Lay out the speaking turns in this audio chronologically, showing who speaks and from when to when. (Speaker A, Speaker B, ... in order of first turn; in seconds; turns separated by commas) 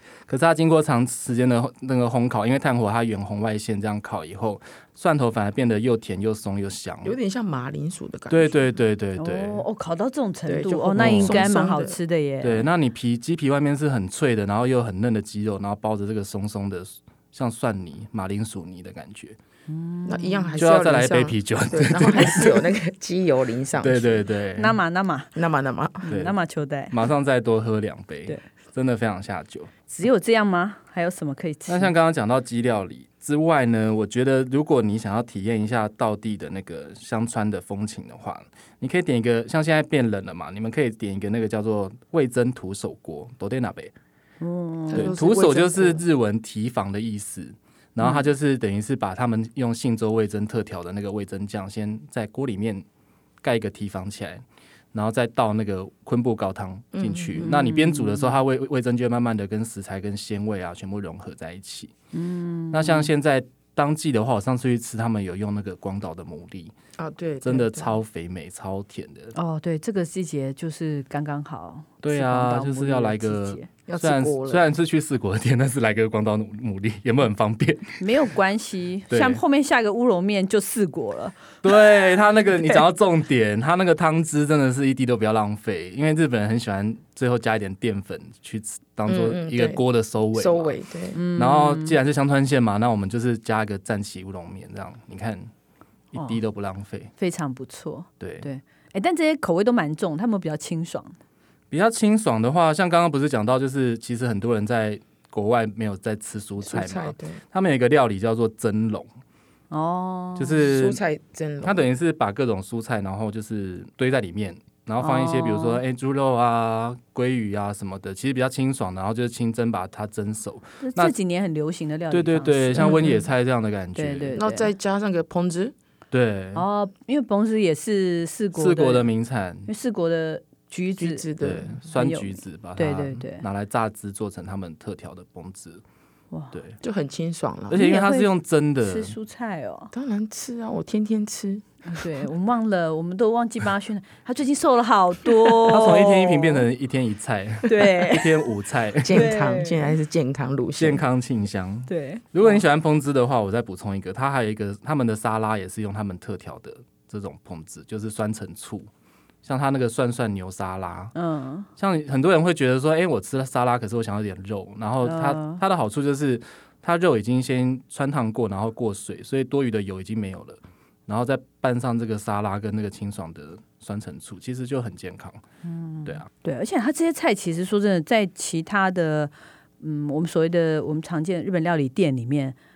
Speaker A: 0.3-7.1, Speaker B: 7.0-8.8, Speaker A: 8.3-9.6, Speaker C: 9.2-12.7, Speaker B: 10.5-11.9, Speaker A: 11.0-11.4, Speaker A: 12.4-19.4, Speaker C: 19.7-20.5, Speaker B: 20.0-24.2, Speaker A: 20.6-22.7, Speaker A: 23.8-24.8, Speaker C: 24.6-25.3, Speaker B: 25.3-26.1, Speaker C: 26.0-26.9, Speaker A: 26.1-26.4, Speaker A: 26.9-29.7, Speaker C: 29.9-31.9, Speaker A: 31.7-43.9, Speaker C: 44.4-45.1, Speaker B: 44.9-46.0, Speaker A: 44.9-52.8, Speaker A: 53.4-61.9, Speaker B: 56.9-57.5, Speaker C: 57.4-58.4, Speaker C: 62.1-63.1, Speaker A: 62.7-66.7, Speaker B: 67.0-68.0, Speaker A: 67.4-69.3, Speaker C: 69.3-73.7, Speaker A: 72.0-78.0, Speaker B: 73.9-74.7, Speaker C: 78.0-81.3, Speaker A: 79.1-79.4, Speaker A: 81.6-90.7, Speaker B: 89.1-89.8, Speaker B: 90.3-91.2, Speaker C: 91.1-92.0, Speaker A: 91.4-95.5, Speaker A: 96.1-97.1, Speaker C: 96.1-96.4, Speaker C: 97.2-101.2, Speaker A: 98.2-98.5, Speaker A: 101.7-109.1, Speaker B: 106.6-107.4, Speaker C: 109.7-110.7, Speaker A: 110.4-111.0, Speaker B: 110.6-111.8, Speaker A: 111.6-121.1, Speaker C: 115.0-115.8, Speaker C: 120.8-123.2, Speaker A: 122.1-124.4, Speaker B: 122.8-123.2, Speaker C: 123.9-124.7, Speaker B: 124.3-125.7, Speaker A: 126.1-126.7, Speaker C: 126.5-129.1, Speaker A: 128.5-129.7, Speaker C: 129.7-131.3, Speaker B: 131.0-131.9, Speaker A: 131.4-135.8, Speaker C: 131.9-133.4, Speaker C: 136.3-136.6, Speaker A: 136.5-136.8, Speaker B: 136.8-137.9, Speaker A: 137.7-139.1, Speaker C: 137.7-138.3, Speaker C: 138.8-139.9, Speaker B: 139.9-141.7, Speaker C: 141.8-146.7, Speaker A: 145.7-149.3, Speaker C: 147.6-148.4, Speaker B: 149.0-151.0, Speaker C: 149.1-149.9, Speaker A: 150.8-158.9, Speaker C: 151.9-152.6, Speaker A: 159.4-161.1, Speaker C: 161.1-161.7, Speaker A: 161.8-175.4, Speaker C: 165.0-165.6, Speaker C: 175.6-182.6